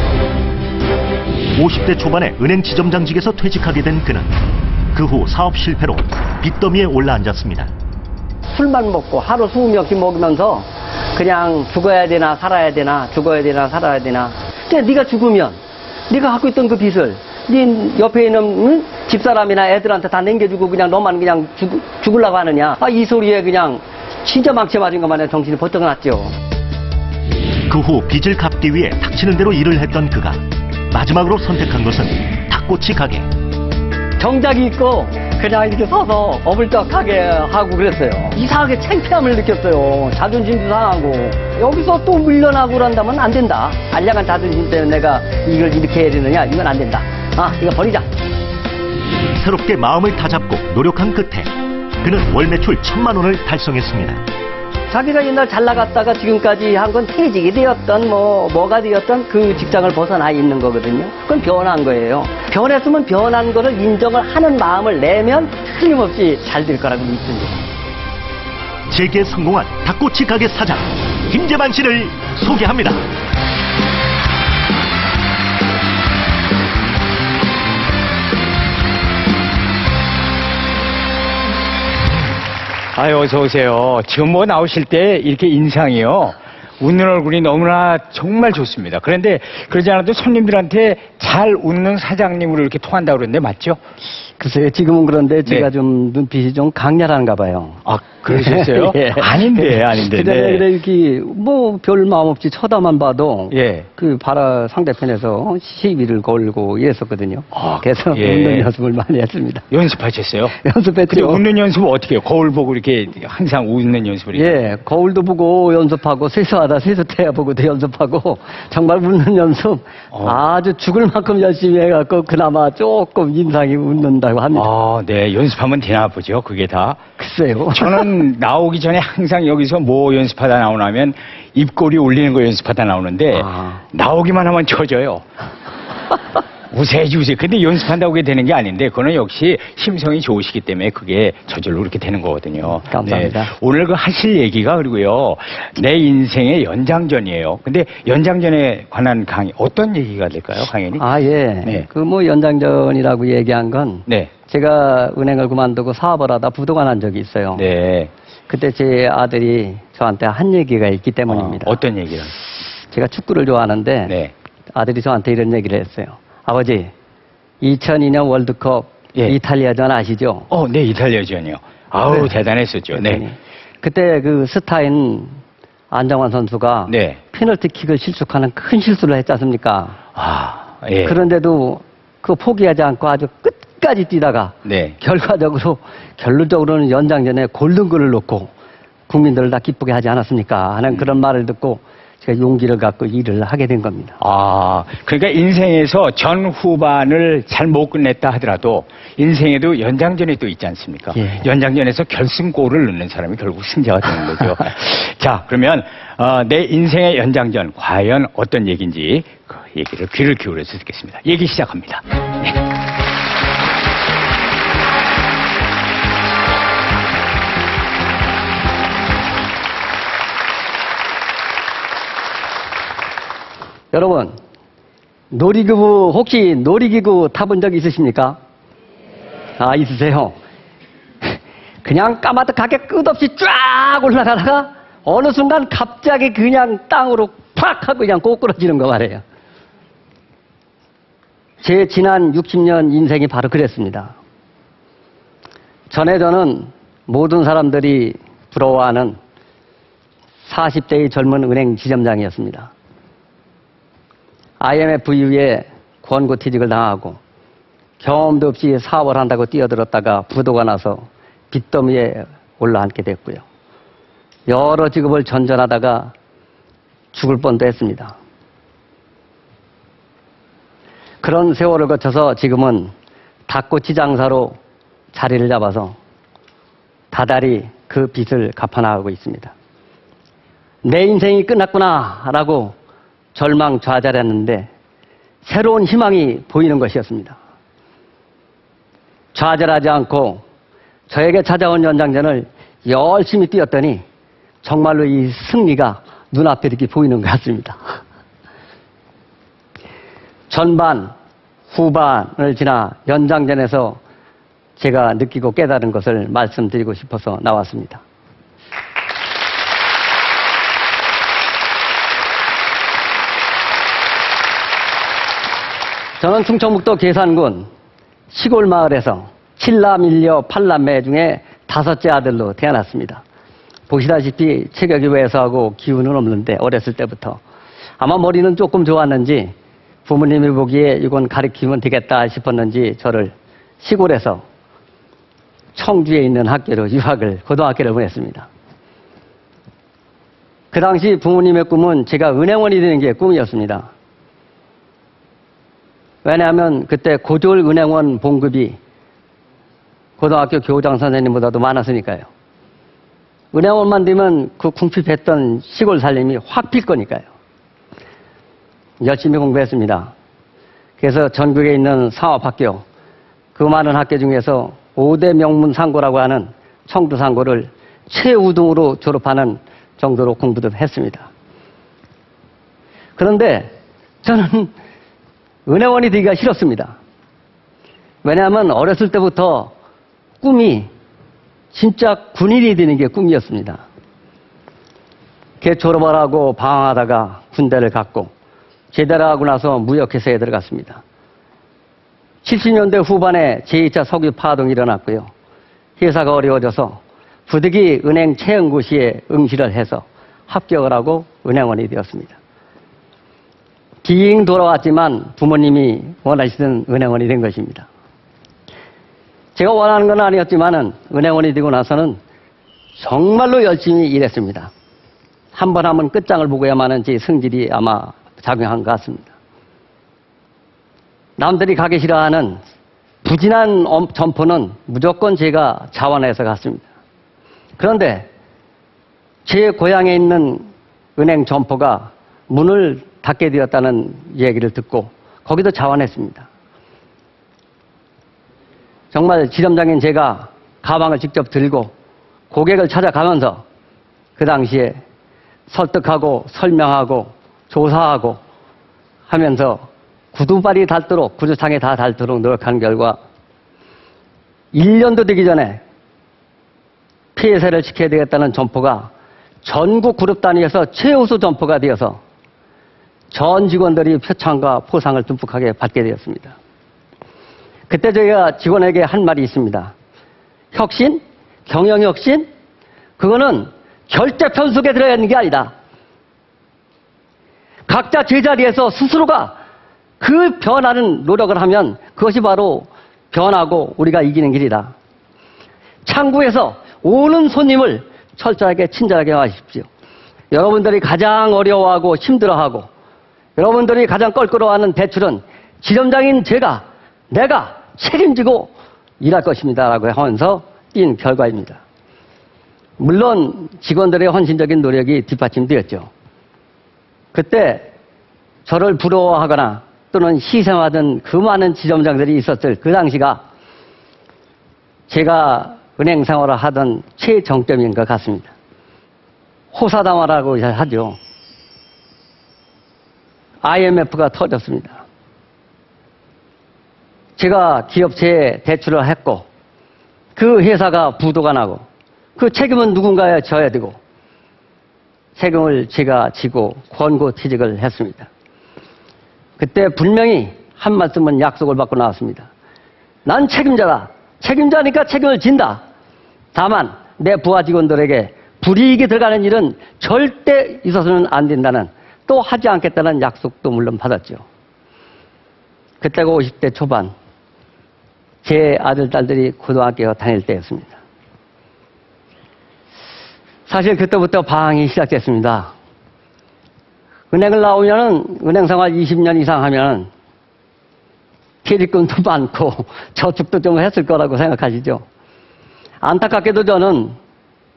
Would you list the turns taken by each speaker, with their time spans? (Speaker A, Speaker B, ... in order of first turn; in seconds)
Speaker A: 1.6-4.3, 4.9-7.7, 27.7-33.3, 49.3-54.2, 68.9-73.0
Speaker B: 8.5-15.6, 16.1-26.3, 34.2-48.1, 54.9-67.7, 94.4-109.6, 110.5-111.4, 114.3-124.7, 127.2-128.1, 133.3-133.8, 142.8-143.5, 151.0-157.6, 158.5-161.8, 162.9-164.1, 164.7-166.9, 167.6-170.5, 172.1-172.3, 172.9-175.4, 175.9-180.0, 181.0-188.5, 189.1-194.2, 201.1-201.4, 223.9-224.3, 225.3-228.4, 229.6-230.3, 231.8-239.2, 241.6-244.1, 245.9-249.2, 250.4-252.7, 254.6-257.2, 258.0-263.4, 264.5-266.1, 267.1-268.1, 271.2-272.9, 273.5-274.6, 275.1-275.9, 277.1-279.5, 280.8-282.7, 283.3-284.7, 285.4-287.4, 289.3-290.4, 291.1-294.0, 294.6-298.0, 300.5-301.1, 301.7-304.0, 304.8-308.0, 316.2-317.7, 318.3-323.2, 323.9-327.4, 328.0-329.5, 330.0-334.4, 335.7-338.5, 340.7-343.9, 346.2-348.8, 350.2-352.3, 353.5-357.3, 359.0-360.1, 361.0-362.8, 363.6-371.3, 373.2-373.7, 374.2-374.7, 375.6-376.9, 378.2-379.7, 380.4-380.9, 381.7-383.8, 385.6-388.3, 388.9-391.0, 392.4-395.3, 396.0-402.4, 404.0-407.9, 409.5-412.2, 413.0-414.7, 415.5-419.3, 421.4-422.6, 423.2-426.9, 427.8-428.3, 429.4-436.5, 439.1-441.9, 442.5-443.6, 444.4-445.0, 445.7-448.4, 449.3-453.2, 454.7-455.8, 457.4-459.1, 459.6-462.2, 463.3-466.5, 467.9-469.9, 470.7-472.5, 473.2-475.7, 477.9-479.6, 480.2-484.9, 486.1-489.9, 490.5-492.9, 493.6-501.8, 503.0-506.1, 507.3-507.9, 508.6-513.4, 515.1-518.5, 519.7-521.2, 523.6-525.0, 527.4-529.5, 530.4-531.8, 532.4-534.0, 535.4-538.3, 539.6-542.5, 543.2-545.8, 546.5-554.4, 556.0-557.1, 558.4-561.0, 563.7-565.7, 567.3-570.1, 571.6-575.0, 576.0-577.1
Speaker C: 82.9-93.8, 97.8-100.7, 103.5-103.9, 107.5-108.7, 109.7-110.5, 111.1-114.6, 120.1-120.4, 124.5-127.0, 127.7-135.2, 136.7-151.0, 157.5-158.1, 161.3-162.3, 164.1-164.3, 170.5-173.2, 176.9-177.2, 180.1-181.2, 184.6-185.0, 194.2-212.6